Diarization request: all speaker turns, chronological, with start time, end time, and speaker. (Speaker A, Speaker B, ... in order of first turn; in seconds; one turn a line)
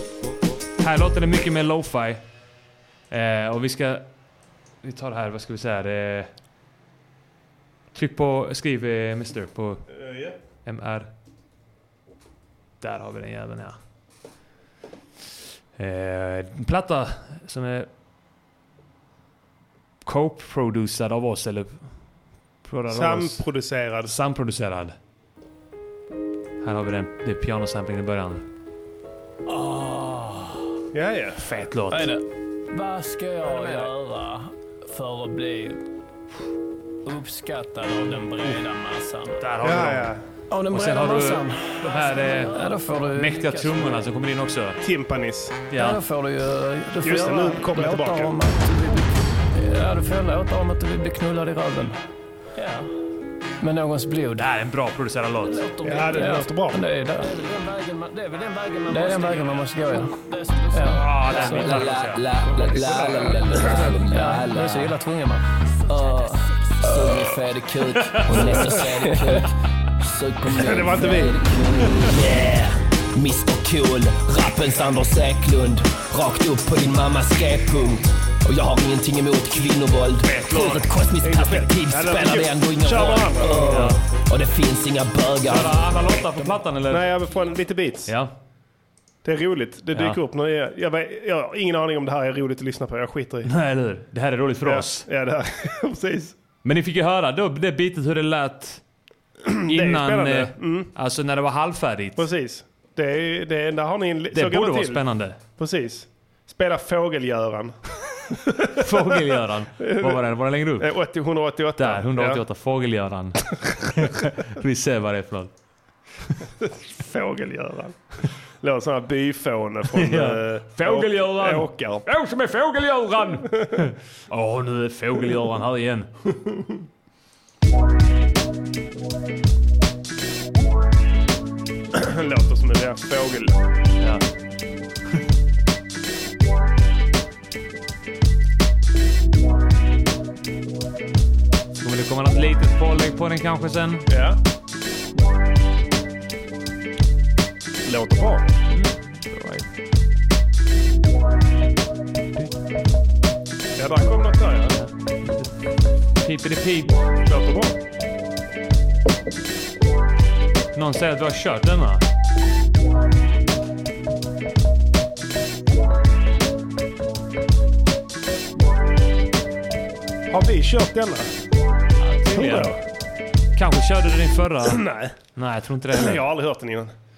Speaker A: 0.8-2.2
Speaker A: 3.1-4.1
Speaker A: 4.8-6.3
Speaker A: 7.9-9.9
Speaker B: 9.9-10.3
Speaker A: 10.6-11.1
Speaker A: 12.8-13.8
Speaker A: 15.8-17.9
Speaker A: 20.0-21.9
Speaker A: 22.6-23.4
Speaker B: 22.9-24.1
Speaker A: 24.1-24.9
Speaker A: 26.6-28.4
Speaker C: 29.5-30.7
Speaker B: 30.9-31.4
Speaker A: 31.4-32.1
Speaker C: 31.9-35.8
Speaker C: 37.0-39.4
Speaker A: 39.4-40.1
Speaker B: 39.6-40.2
Speaker C: 40.5-44.0
Speaker A: 40.7-44.8
Speaker B: 44.8-45.6
Speaker A: 45.7-46.0
Speaker C: 45.7-52.0
Speaker B: 47.0-48.4
Speaker C: 52.5-52.9
Speaker C: 53.6-54.5
Speaker A: 54.3-55.6
Speaker C: 55.4-66.4
Speaker B: 55.8-56.8
Speaker A: 60.8-62.2
Speaker D: 61.3-64.9
Speaker D: 65.9-66.3
Speaker D: 66.8-86.3
Speaker C: 69.1-69.3
Speaker B: 70.5-71.4
Speaker A: 80.2-80.9
Speaker B: 81.2-84.0
Speaker A: 83.7-84.0
Speaker A: 85.4-87.1
Speaker B: 86.9-88.1
Speaker A: 88.1-88.3
Speaker B: 89.2-93.5
Speaker A: 89.9-90.2
Speaker A: 93.4-95.1
Speaker B: 94.6-96.3
Speaker A: 96.6-98.8
Speaker B: 99.5-100.9
Speaker A: 99.7-102.2
Speaker B: 102.2-109.2
Speaker A: 104.3-105.4
Speaker A: 108.7-110.9
Speaker B: 109.8-110.2
Speaker B: 110.8-112.4
Speaker A: 111.8-115.5
Speaker B: 116.6-118.0
Speaker B: 118.6-122.0
Speaker A: 119.9-126.1
Speaker B: 126.4-126.7
Speaker B: 131.9-133.6
Speaker A: 134.0-134.2
Speaker A: 141.8-144.0
Speaker B: 144.1-144.4
Speaker B: 147.8-148.5
Speaker A: 148.7-149.6
Speaker B: 153.8-154.8
Speaker A: 154.7-155.5
Speaker A: 156.2-157.0
Speaker B: 157.2-157.7
Speaker A: 160.7-162.0
Speaker B: 170.3-171.3
Speaker A: 172.0-172.8
Speaker B: 172.3-172.8
Speaker A: 173.6-176.2
Speaker B: 174.6-175.1
Speaker B: 175.9-176.9